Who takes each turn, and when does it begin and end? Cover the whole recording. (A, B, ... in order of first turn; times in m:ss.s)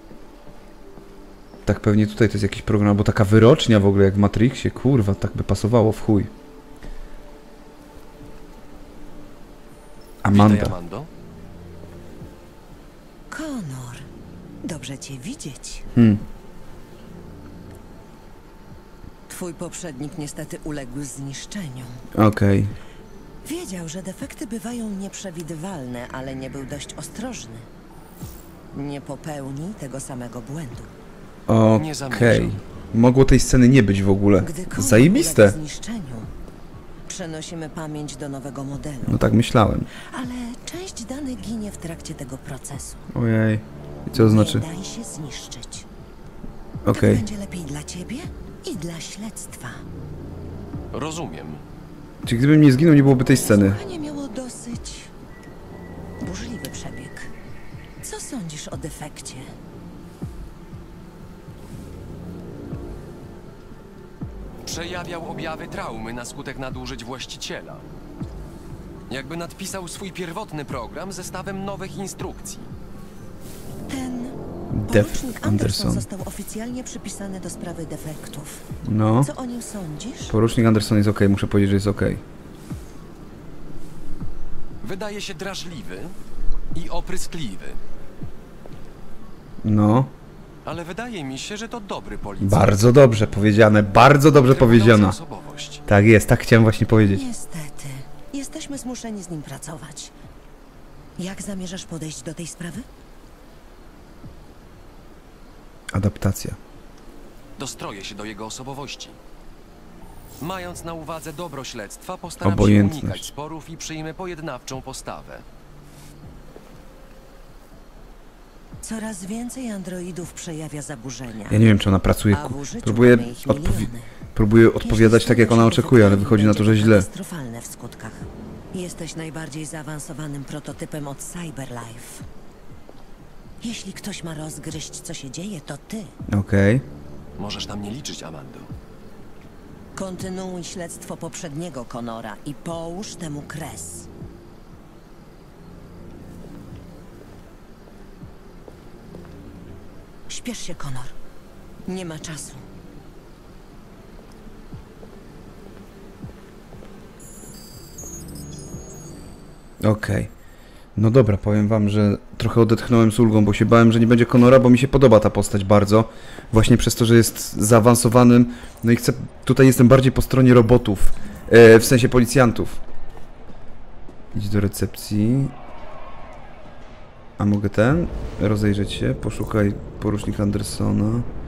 0:01.6-0:06.3 A
0:10.2-0:10.7 A
0:10.3-0:11.1 B
0:13.3-0:14.1 C
0:14.6-0:15.9 C
0:15.9-0:16.2 A
0:19.3-0:22.0 C
0:22.1-0:22.7 A
0:23.4-0:27.7 C
0:28.7-0:30.9 C
0:31.5-0:35.6 A
0:31.7-0:32.6 B
0:34.4-0:36.3 C
0:37.1-0:39.2 C
0:39.0-0:39.9 A
0:40.1-0:43.1 C
0:43.1-0:44.7 A
0:44.1-0:45.8 C
0:46.8-0:47.2 A
0:46.9-0:49.8 C
0:50.9-0:51.6 B
0:52.2-0:53.8 A
0:53.1-0:55.1 C
0:56.2-0:57.3 C
0:58.0-0:59.5 C
1:04.6-1:07.8 B
1:09.1-1:12.7 B
1:13.9-1:14.4 C
1:14.7-1:16.0 A
1:14.9-1:18.6 C
1:18.8-1:19.3 A
1:19.2-1:20.3 C
1:20.3-1:22.2 A
1:24.8-1:26.1 B
1:26.7-1:27.8 B
1:29.6-1:30.1 A
1:30.6-1:32.8 B
1:32.4-1:35.2 A
1:34.3-1:35.8 B
1:35.9-1:37.2 A
1:37.1-1:40.1 C
1:41.2-1:42.8 C
1:45.9-1:46.6 A
1:47.6-1:49.2 B
1:50.4-1:55.4 B
1:52.4-1:53.2 A
1:58.8-2:01.6 C
2:01.5-2:07.1 A
2:02.3-2:04.1 C
2:04.8-2:12.2 C
2:13.6-2:16.1 C
2:16.3-2:16.8 A
2:17.4-2:18.7 B
2:20.0-2:24.1 C
2:30.3-2:31.1 C
2:31.9-2:32.6 C
2:39.8-2:40.3 A
2:41.0-2:52.8 A
2:54.3-2:55.5 A
2:57.4-3:01.3 A